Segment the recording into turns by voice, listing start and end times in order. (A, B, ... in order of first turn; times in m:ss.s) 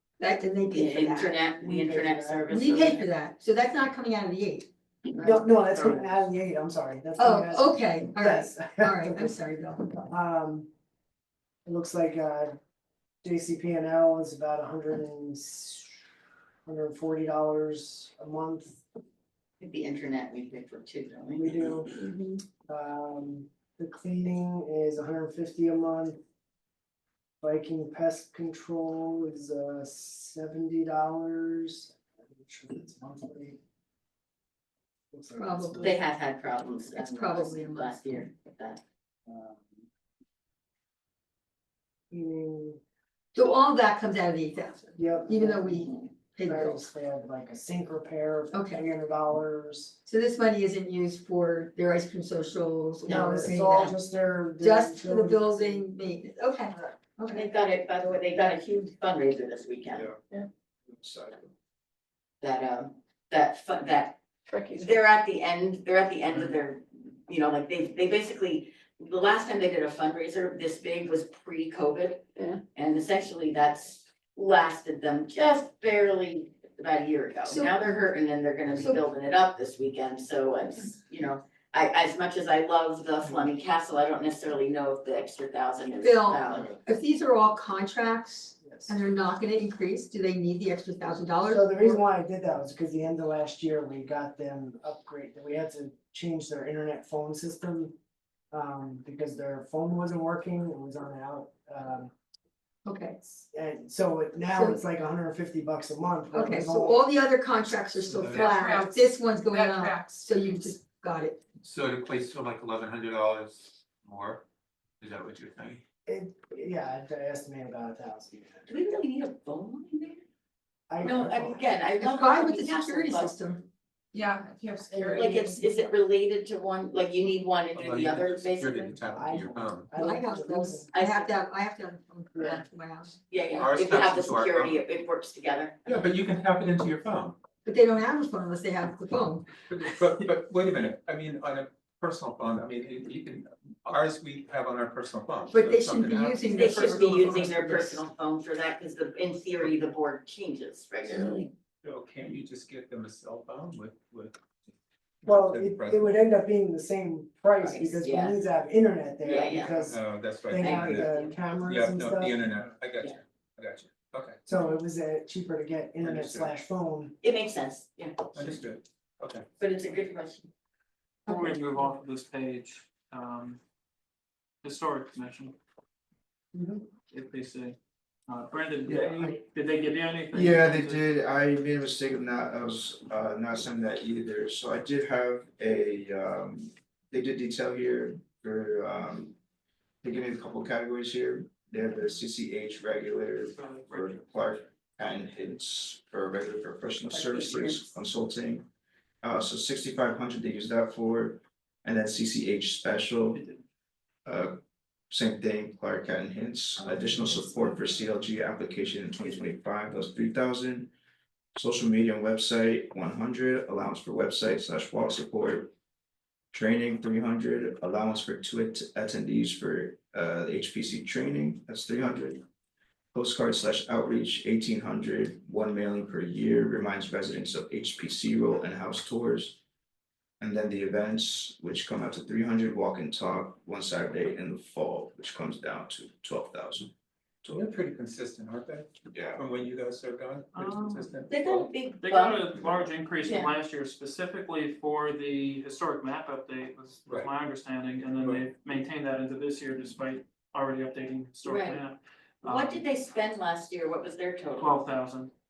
0:00.2-0:01.5 A
0:00.7-0:03.1 B
0:01.5-0:02.5 C
0:02.5-0:04.7 A
0:05.2-0:09.4 C
0:05.7-0:06.2 D
0:07.2-0:10.0 A
0:10.0-0:10.7 C
0:11.6-0:12.6 C
0:13.2-0:16.0 C
0:16.6-0:18.8 C
0:19.6-0:21.6 B
0:21.4-0:21.9 C
0:22.0-0:22.4 E
0:22.6-0:26.2 C
0:27.4-0:33.6 C
0:35.1-0:36.0 C
0:35.3-0:35.9 A
0:35.8-0:38.8 B
0:36.9-0:38.2 A
0:42.1-0:42.8 C
0:43.3-0:46.9 A
0:45.0-0:45.8 C
0:46.4-0:50.0 C
0:48.5-0:48.8 A
0:50.0-0:54.0 A
0:53.0-0:55.8 C
0:54.6-0:57.5 A
0:57.3-1:00.1 B
0:59.9-1:00.2 F
1:00.9-1:01.5 F
1:02.4-1:04.2 B
1:04.5-1:04.9 E
1:04.8-1:26.7 B
1:17.4-1:17.8 A
1:18.7-1:19.0 A
1:26.0-1:32.0 A
1:26.5-1:26.8 F
1:28.6-1:29.0 C
1:31.4-1:38.0 C
1:38.5-1:42.1 C
1:42.8-1:43.2 A
1:43.3-1:47.0 C
1:44.5-1:44.8 A
1:46.3-1:51.4 A
1:48.1-1:48.5 G
1:48.2-1:50.7 E
1:51.6-1:54.4 G
1:55.0-1:55.8 G
1:56.0-1:58.7 C
1:58.7-2:00.2 B
2:00.9-2:01.7 C
2:01.0-2:03.4 B
2:01.9-2:03.6 A
2:04.1-2:05.8 E
2:05.1-2:09.0 B
2:07.7-2:09.9 G
2:09.1-2:10.9 C
2:10.0-2:13.1 A
2:10.9-2:11.3 B
2:12.3-2:12.6 C
2:13.3-2:16.0 B
2:13.5-2:14.8 G
2:15.8-2:17.4 G
2:17.6-2:19.5 A
2:19.7-2:26.8 G
2:25.5-2:28.0 A
2:26.5-2:31.5 B
2:31.8-2:34.4 G
2:35.2-2:36.2 G
2:35.2-2:40.0 C
2:37.6-2:38.4 B
2:39.2-2:40.0 B
2:39.9-2:41.1 G
2:40.5-2:42.5 C
2:40.5-2:41.4 B
2:41.6-2:44.4 G
2:44.4-2:47.2 C
2:46.0-2:46.5 G
2:47.2-2:48.5 B
2:48.3-2:49.4 G
2:49.6-2:50.5 B
2:51.3-2:51.9 A
2:51.3-2:53.6 D
2:54.6-2:55.6 D
2:56.5-2:56.8 C
2:57.1-3:01.0 D
2:58.9-2:59.3 F
3:00.3-3:09.4 F
3:10.0-3:18.7 F
3:13.5-3:14.2 D
3:17.1-3:17.9 E
3:19.2-3:23.4 F
3:23.3-3:23.6 D
3:24.2-3:30.9 F
3:26.8-3:28.0 E
3:31.5-3:35.7 F
3:36.5-3:42.4 F
3:43.1-3:49.6 F
3:50.4-3:57.7 F
3:57.5-4:01.7 G
3:59.1-3:59.5 F
4:00.5-4:01.1 D
4:01.3-4:02.6 B
4:02.0-4:12.8 D
4:03.2-4:03.5 B
4:11.4-4:11.8 B
4:12.4-4:14.8 B
4:14.6-4:15.3 D